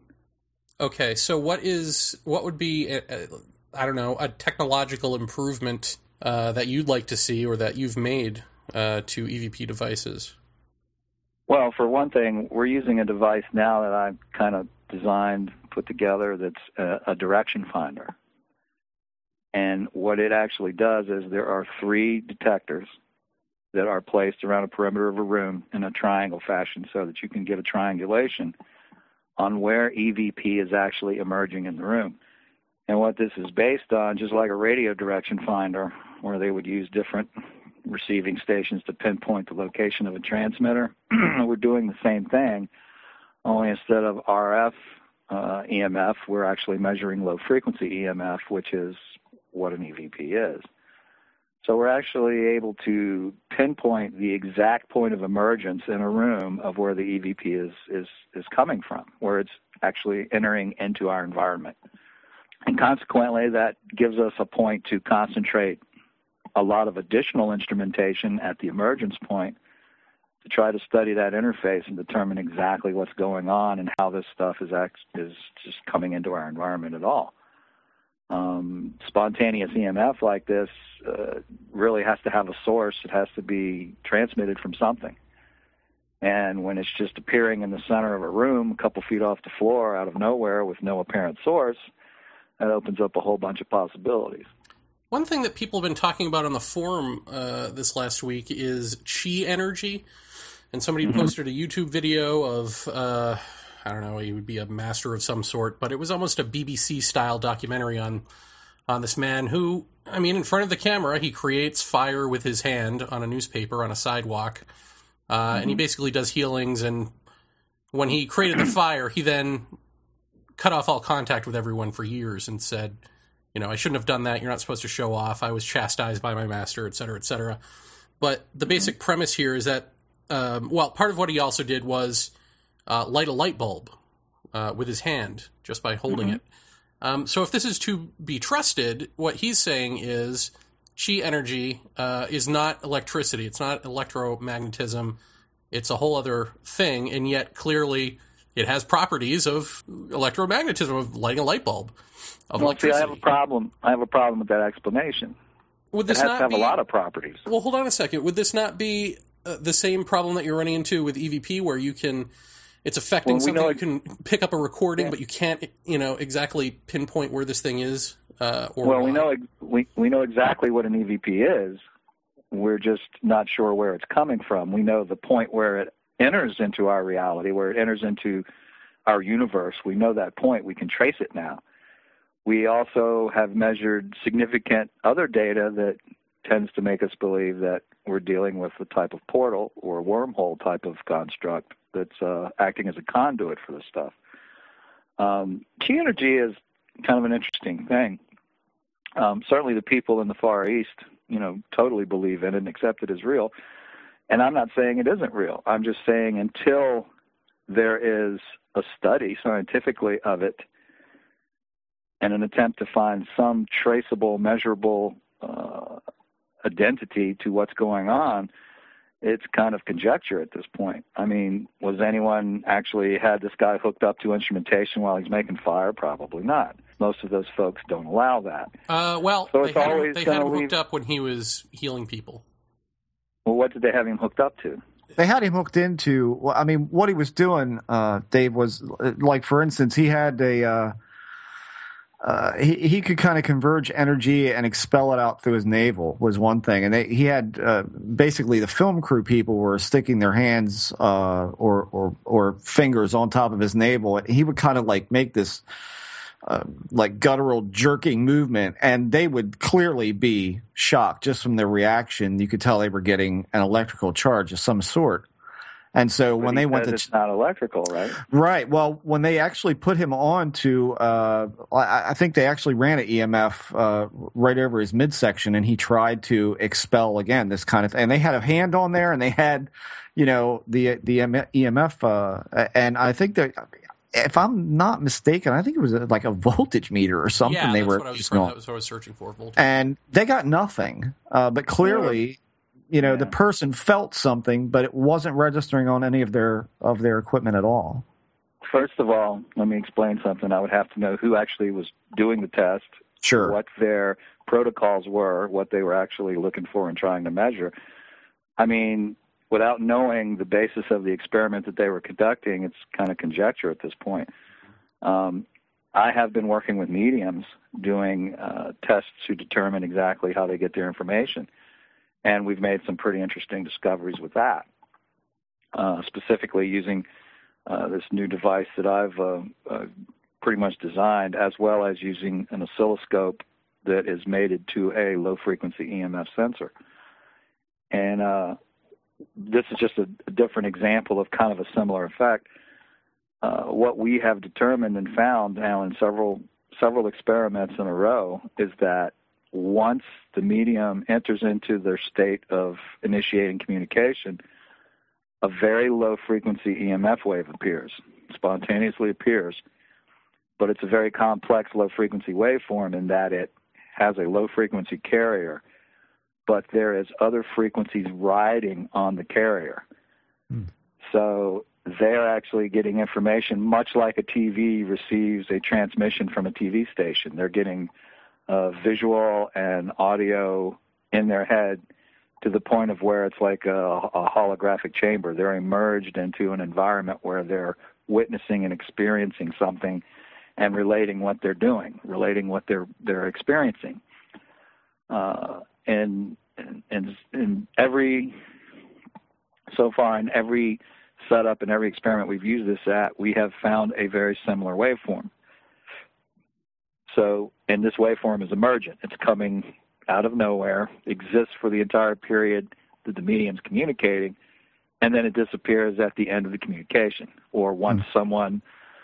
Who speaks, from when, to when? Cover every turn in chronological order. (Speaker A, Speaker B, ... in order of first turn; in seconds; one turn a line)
Speaker A: 0.8-10.3
Speaker B: 11.5-18.1
Speaker B: 19.5-22.9
Speaker B: 23.7-28.5
Speaker B: 29.4-32.2
Speaker B: 32.9-37.3
Speaker B: 37.9-42.7
Speaker B: 43.4-44.7
Speaker B: 45.3-49.0
Speaker B: 49.5-50.6
Speaker B: 51.6-61.8
Speaker B: 62.7-65.8
Speaker B: 66.5-69.6
Speaker B: 70.4-77.3
Speaker B: 78.3-85.2
Speaker B: 86.2-91.8
Speaker B: 92.6-94.5
Speaker A: 95.1-100.0
Speaker A: 100.7-108.2
Speaker A: 108.9-114.6
Speaker A: 115.3-117.1
Speaker A: 117.9-119.7
Speaker A: 120.6-123.0
Speaker A: 123.5-127.6
Speaker A: 128.2-132.3
Speaker A: 132.9-133.9
Speaker A: 134.5-136.4
Speaker A: 137.0-145.2
Speaker A: 145.7-151.9
Speaker A: 152.5-153.2
Speaker B: 152.6-155.3
Speaker A: 155.9-156.8
Speaker B: 156.1-157.4
Speaker A: 157.4-162.3
Speaker A: 162.8-169.2
Speaker B: 163.2-163.8
Speaker B: 168.8-171.8
Speaker B: 172.5-178.4
Speaker B: 179.1-181.6
Speaker B: 182.4-194.1
Speaker B: 195.2-198.2
Speaker B: 199.2-203.5
Speaker B: 204.3-207.1
Speaker B: 207.7-210.6
Speaker B: 212.2-216.0
Speaker B: 216.6-218.5
Speaker B: 219.2-228.7
Speaker A: 228.9-232.4
Speaker B: 229.5-230.7
Speaker B: 233.4-234.8
Speaker C: 235.2-240.9
Speaker C: 242.2-255.6
Speaker C: 256.4-265.3
Speaker C: 265.9-267.1
Speaker B: 266.4-268.2
Speaker C: 268.3-288.5
Speaker A: 287.4-289.6
Speaker C: 289.6-292.4
Speaker B: 291.8-292.2
Speaker C: 292.9-298.0
Speaker B: 293.0-293.3
Speaker B: 298.7-307.7
Speaker C: 303.2-303.6
Speaker B: 308.6-314.3
Speaker B: 315.0-321.5
Speaker B: 322.2-324.6
Speaker B: 325.7-327.0
Speaker B: 327.7-329.9
Speaker B: 330.4-336.7
Speaker B: 337.9-338.6
Speaker B: 339.4-342.5
Speaker B: 343.4-354.4
Speaker B: 355.4-359.6
Speaker B: 360.6-365.6
Speaker B: 366.5-369.8
Speaker B: 371.1-377.9
Speaker B: 378.5-381.8
Speaker B: 382.4-390.0
Speaker B: 390.6-394.0
Speaker B: 395.1-398.3
Speaker B: 399.7-405.3
Speaker B: 407.1-414.4
Speaker B: 415.0-418.6